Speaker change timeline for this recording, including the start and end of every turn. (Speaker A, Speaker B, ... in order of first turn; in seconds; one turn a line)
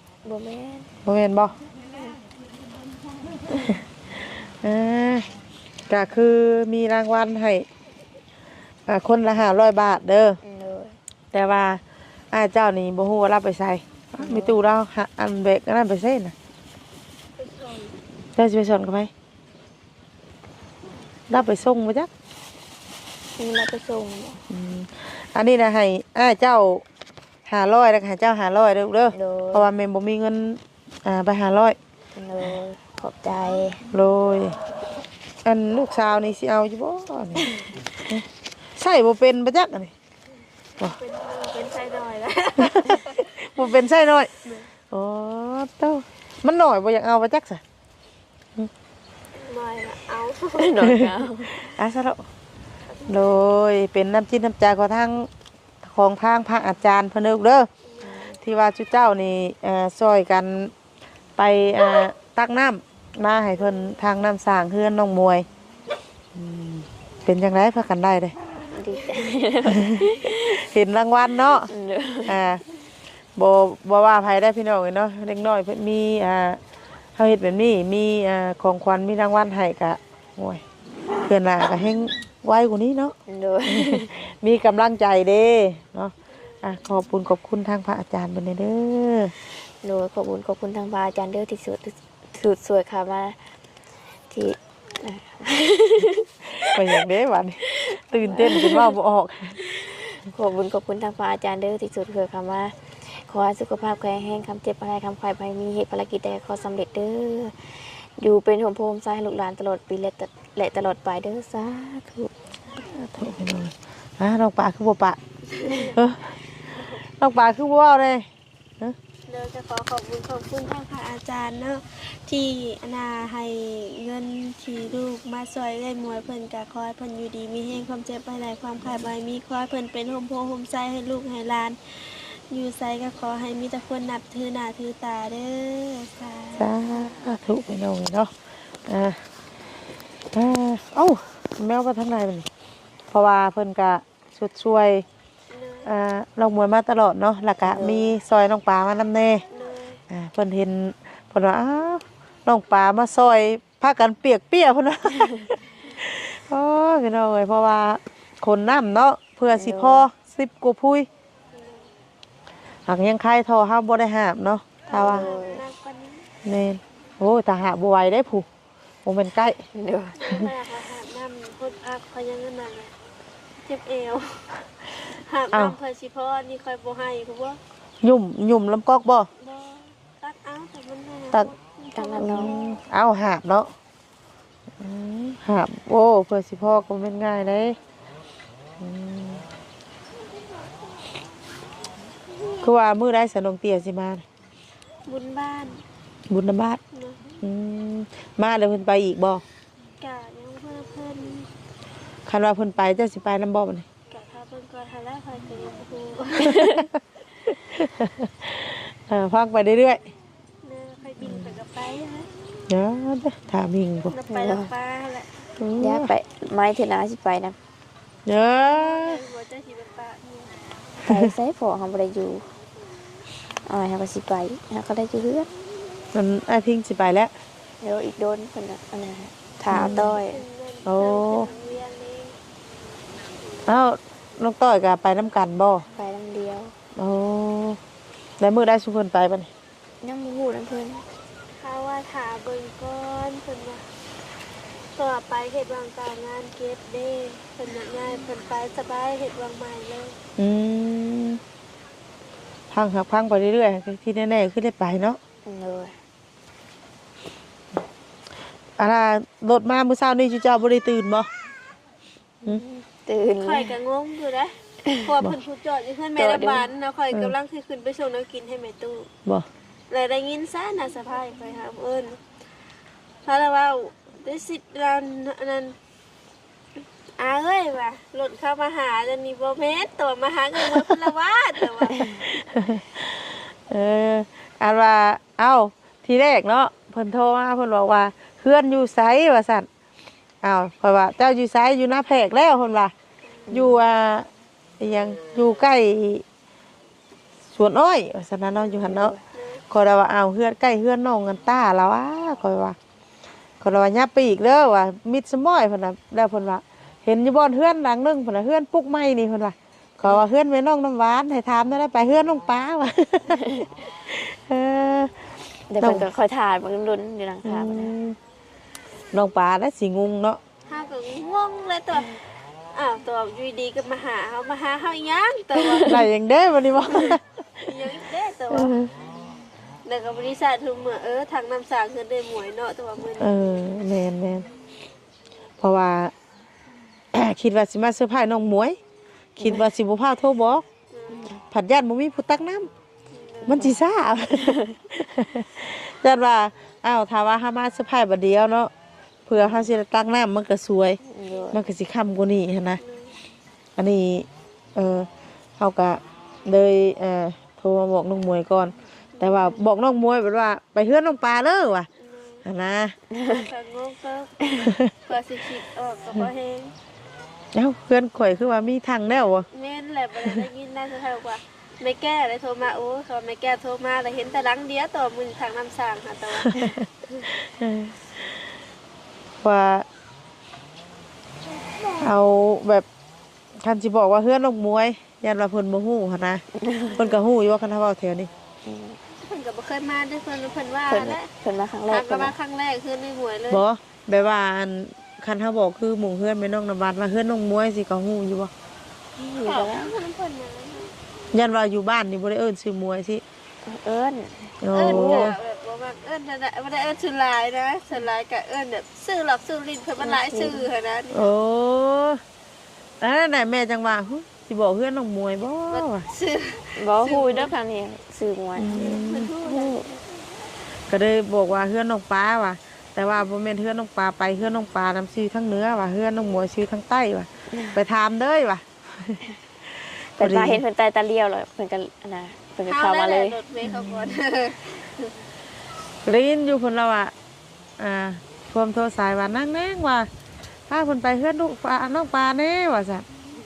Speaker A: 0.2-0.9
Speaker B: 1.0-1.5
Speaker B: 4.6-5.3
Speaker B: 5.9-7.7
Speaker B: 8.9-10.4
Speaker A: 10.4-11.0
Speaker B: 11.3-11.8
Speaker B: 12.3-16.3
Speaker A: 14.2-14.6
Speaker C: 17.4-17.9
Speaker B: 18.4-19.1
Speaker B: 21.3-22.1
Speaker A: 23.4-24.4
Speaker B: 24.5-26.8
Speaker B: 27.4-31.8
Speaker A: 29.1-29.7
Speaker A: 32.1-33.8
Speaker B: 33.9-34.5
Speaker B: 35.4-37.5
Speaker B: 38.8-39.9
Speaker C: 40.8-43.3
Speaker B: 42.6-44.3
Speaker B: 44.9-47.6
Speaker C: 49.3-50.9
Speaker A: 50.6-51.5
Speaker B: 50.8-52.2
Speaker C: 52.9-53.4
Speaker B: 53.1-55.3
Speaker B: 55.8-57.7
Speaker C: 57.8-58.2
Speaker A: 58.0-58.4
Speaker B: 58.4-60.7
Speaker B: 61.4-65.5
Speaker B: 66.3-68.3
Speaker A: 68.7-70.5
Speaker B: 69.7-71.7
Speaker A: 71.7-72.4
Speaker B: 72.2-72.6
Speaker B: 73.3-76.6
Speaker B: 77.2-80.6
Speaker B: 81.2-83.1
Speaker A: 83.3-84.1
Speaker B: 83.7-89.3
Speaker A: 89.8-93.4
Speaker A: 94.3-96.2
Speaker B: 96.6-99.6
Speaker A: 98.3-98.8
Speaker A: 99.8-112.3
Speaker B: 112.9-115.2
Speaker C: 115.5-116.0
Speaker B: 115.9-116.4
Speaker B: 117.2-118.2
Speaker C: 119.3-136.7
Speaker B: 136.6-138.3
Speaker B: 138.9-139.2
Speaker B: 140.3-142.4
Speaker B: 143.1-145.0
Speaker C: 145.5-145.9
Speaker B: 145.8-149.4
Speaker A: 147.6-148.1
Speaker C: 149.5-150.0
Speaker B: 150.1-161.1
Speaker A: 159.5-160.1
Speaker C: 161.5-161.9
Speaker B: 162.8-165.3
Speaker C: 164.9-166.3
Speaker A: 164.9-165.6
Speaker B: 166.4-168.4
Speaker B: 169.0-169.6
Speaker A: 169.7-170.2
Speaker C: 170.1-172.9
Speaker C: 173.6-177.6
Speaker B: 175.5-175.8
Speaker B: 178.0-179.3
Speaker C: 179.4-182.8
Speaker A: 181.9-182.5
Speaker B: 182.2-183.7
Speaker B: 184.8-187.8
Speaker B: 188.8-189.4
Speaker B: 192.6-194.2
Speaker C: 195.1-195.8
Speaker B: 196.3-196.8
Speaker C: 196.9-197.2
Speaker B: 197.4-199.4
Speaker C: 200.0-201.5
Speaker B: 202.2-203.8
Speaker C: 204.1-206.8
Speaker A: 206.4-206.8
Speaker B: 206.5-206.9
Speaker B: 207.5-210.0
Speaker C: 210.6-212.3
Speaker B: 211.2-211.5
Speaker B: 212.7-214.2
Speaker C: 214.1-215.3
Speaker A: 214.3-214.7
Speaker B: 215.6-216.1
Speaker A: 215.7-217.6
Speaker B: 218.2-219.2
Speaker C: 218.5-220.6
Speaker A: 221.0-222.4
Speaker B: 221.1-221.3
Speaker A: 223.6-225.5
Speaker B: 226.1-227.3
Speaker A: 227.8-230.4
Speaker B: 229.7-230.1
Speaker C: 229.7-232.3
Speaker B: 230.8-231.5
Speaker B: 233.7-235.8
Speaker A: 235.9-236.7
Speaker B: 236.9-237.8
Speaker B: 238.4-239.5
Speaker A: 240.0-241.0
Speaker C: 241.6-243.8
Speaker C: 244.9-250.2
Speaker B: 250.4-251.4
Speaker B: 252.7-255.2
Speaker A: 255.4-255.9
Speaker B: 258.8-261.3
Speaker A: 262.4-263.7
Speaker C: 263.4-269.1
Speaker A: 266.1-266.6
Speaker C: 269.9-272.2
Speaker C: 273.2-275.8
Speaker C: 277.2-282.0
Speaker A: 281.9-282.2
Speaker B: 282.2-289.7
Speaker B: 290.4-292.9
Speaker A: 293.5-293.8
Speaker B: 293.5-294.3
Speaker B: 294.8-296.2
Speaker B: 297.5-299.1
Speaker A: 298.8-299.2
Speaker C: 299.3-299.6
Speaker B: 299.7-302.8
Speaker B: 303.6-313.4
Speaker A: 313.3-313.6
Speaker B: 314.0-315.1
Speaker A: 315.7-317.9
Speaker B: 315.8-316.1
Speaker B: 317.4-318.2
Speaker B: 319.1-320.4
Speaker C: 320.7-322.1
Speaker C: 322.7-326.1
Speaker B: 325.8-327.2
Speaker C: 326.9-328.7
Speaker B: 328.5-328.9
Speaker C: 329.8-333.4
Speaker B: 333.2-334.5
Speaker B: 335.6-336.1
Speaker B: 337.1-338.8
Speaker A: 339.4-339.7
Speaker B: 339.4-340.6
Speaker C: 340.9-341.3
Speaker A: 341.1-341.4
Speaker B: 341.5-342.7
Speaker C: 343.1-343.7
Speaker B: 343.4-348.7
Speaker B: 349.2-351.0
Speaker A: 349.4-349.6
Speaker A: 351.1-351.6
Speaker B: 351.5-352.8
Speaker C: 352.8-353.1
Speaker B: 353.8-361.9
Speaker C: 359.2-359.5
Speaker C: 362.0-362.4
Speaker B: 362.4-362.9
Speaker A: 363.1-363.4
Speaker C: 363.2-366.7
Speaker B: 364.6-364.9
Speaker B: 367.5-369.5
Speaker C: 369.5-376.8
Speaker B: 370.2-370.4
Speaker B: 376.4-378.4
Speaker B: 379.4-379.8
Speaker B: 381.9-382.9
Speaker B: 383.6-386.4
Speaker A: 386.6-386.9
Speaker C: 386.9-387.2
Speaker B: 386.9-388.3
Speaker A: 388.6-389.0
Speaker C: 389.2-391.3
Speaker A: 390.9-392.3
Speaker C: 391.9-393.6
Speaker B: 393.5-398.5
Speaker A: 399.1-399.9
Speaker C: 399.4-400.9
Speaker B: 401.3-403.2
Speaker A: 403.6-405.3
Speaker B: 404.6-405.4
Speaker C: 404.7-411.3
Speaker A: 410.0-410.7
Speaker B: 411.1-412.2
Speaker B: 413.0-416.0
Speaker C: 415.7-417.5
Speaker A: 416.8-419.9
Speaker B: 418.6-419.4
Speaker C: 418.7-420.0
Speaker B: 420.9-429.2
Speaker A: 430.1-433.4
Speaker B: 430.2-430.6
Speaker C: 432.6-435.1
Speaker B: 433.6-434.2
Speaker B: 436.0-437.1
Speaker B: 437.8-440.1
Speaker B: 440.7-443.0